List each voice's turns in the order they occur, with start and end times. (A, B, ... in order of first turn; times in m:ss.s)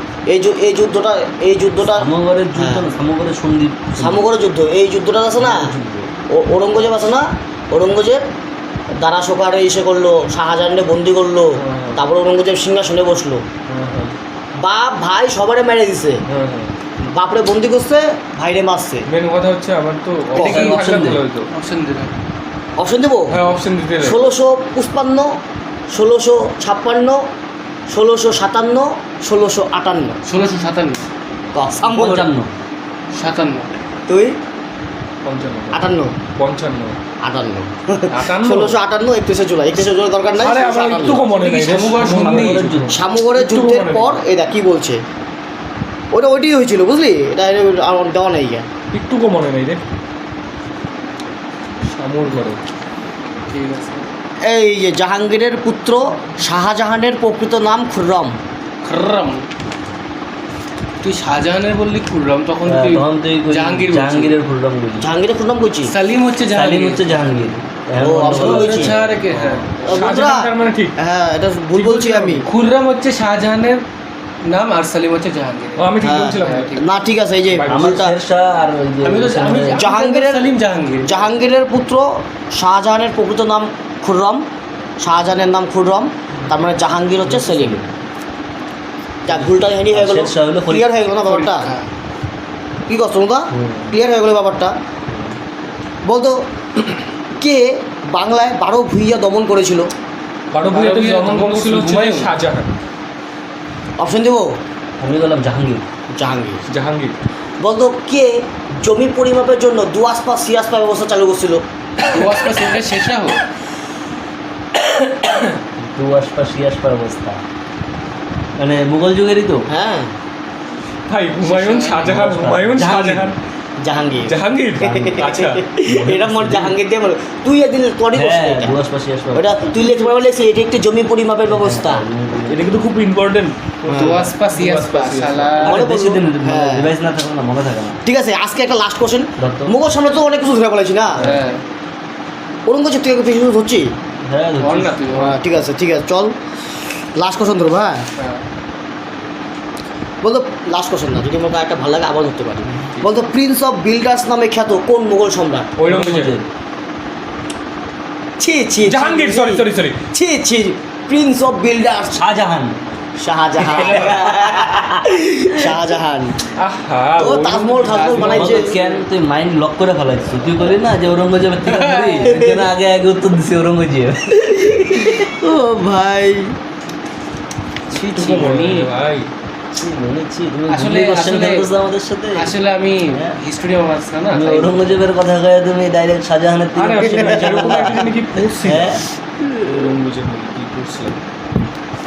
0:00.3-0:02.9 A
0:02.0-0:04.3 B
0:04.0-0:05.7 A
0:05.4-0:06.1 B
0:06.3-0:08.2 A
0:09.0-0:13.4 A
0:11.6-0:12.0 C
0:13.7-0:14.1 C
0:14.6-0:16.2 A
0:16.3-0:16.7 C
0:17.0-0:19.0 A
0:19.1-0:21.5 C
0:20.3-0:20.9 D
0:20.4-0:21.2 B
0:21.5-0:22.1 D
0:22.8-0:23.4 A
0:23.3-0:24.3 C
0:24.0-0:25.3 A
0:25.9-0:27.2 A
0:27.9-0:30.2 A
0:30.2-0:31.0 D
0:31.5-0:32.3 A
0:31.8-0:32.5 B
0:33.1-0:33.7 D
0:34.1-0:34.3 A
0:35.2-0:37.0 C
0:35.7-0:36.1 A
0:37.2-0:41.2 A
0:38.1-0:38.8 C
0:40.4-0:44.2 C
0:41.2-0:42.7 D
0:42.0-0:42.9 B
0:42.9-0:45.0 A
0:46.1-0:48.6 A
0:48.9-0:49.8 C
0:51.9-0:52.6 C
0:53.5-0:54.1 D
0:54.4-0:58.4 A
0:58.8-0:59.4 D
1:01.0-1:04.4 D
1:02.6-1:05.1 B
1:05.0-1:05.9 A
1:05.9-1:07.4 D
1:06.5-1:09.2 B
1:08.0-1:09.0 A
1:08.2-1:10.1 D
1:09.3-1:10.9 C
1:09.8-1:12.4 A
1:11.7-1:12.5 C
1:12.4-1:13.8 D
1:14.4-1:15.8 D
1:15.8-1:16.8 C
1:16.0-1:18.1 A
1:16.4-1:16.9 D
1:17.5-1:18.1 C
1:17.7-1:19.9 B
1:19.0-1:21.1 D
1:19.8-1:20.5 A
1:21.0-1:24.4 A
1:25.0-1:27.8 A
1:27.2-1:27.9 B
1:29.2-1:31.7 A
1:29.3-1:30.9 B
1:31.2-1:31.9 D
1:32.9-1:34.7 A
1:33.5-1:34.0 B
1:35.1-1:35.4 B
1:36.0-1:36.4 A
1:36.9-1:39.9 A
1:40.5-1:42.8 C
1:40.7-1:42.3 D
1:44.0-1:44.5 A
1:45.0-1:45.8 B
1:46.1-1:46.6 A
1:46.7-1:47.1 C
1:47.6-1:48.3 A
1:48.8-1:51.6 A
1:52.1-1:53.4 D
1:54.8-1:55.4 C
1:55.8-1:57.4 B
1:58.6-1:59.6 B
1:59.7-2:00.1 A
2:01.1-2:03.3 C
2:01.4-2:02.1 D
2:02.0-2:03.3 B
2:03.8-2:08.8 A
2:04.3-2:05.6 C
2:04.8-2:05.2 B
2:05.8-2:06.7 B
2:08.1-2:10.0 B
2:09.3-2:12.0 A
2:11.5-2:12.7 B
2:12.5-2:15.7 C
2:13.9-2:14.2 A
2:13.9-2:15.8 D
2:15.6-2:18.0 B
2:15.6-2:16.9 A
2:18.0-2:21.2 A
2:19.4-2:19.7 B
2:21.2-2:21.6 D
2:21.2-2:21.4 B
2:22.6-2:23.9 A
2:24.2-2:25.0 B
2:24.6-2:25.4 D
2:25.1-2:26.3 A
2:27.1-2:28.0 A
2:30.2-2:35.7 A
2:35.8-2:36.3 C
2:35.8-2:36.5 B
2:38.4-2:42.2 A
2:38.8-2:40.0 C
2:42.1-2:42.8 B
2:43.2-2:46.4 A
2:43.6-2:44.8 B
2:43.7-2:44.1 C
2:46.6-2:48.5 C
2:47.2-2:48.7 A
2:47.9-2:49.0 D
2:48.2-2:55.2 B
2:51.6-2:52.4 D
2:52.3-2:52.6 A
2:54.4-2:56.5 A
2:57.9-2:58.9 D
2:58.1-2:59.3 C
2:59.7-3:02.5 B
3:00.7-3:01.7 D
3:02.4-3:05.0 D
3:03.1-3:03.4 B
3:04.3-3:09.0 B
3:06.8-3:11.2 C
3:07.0-3:08.0 A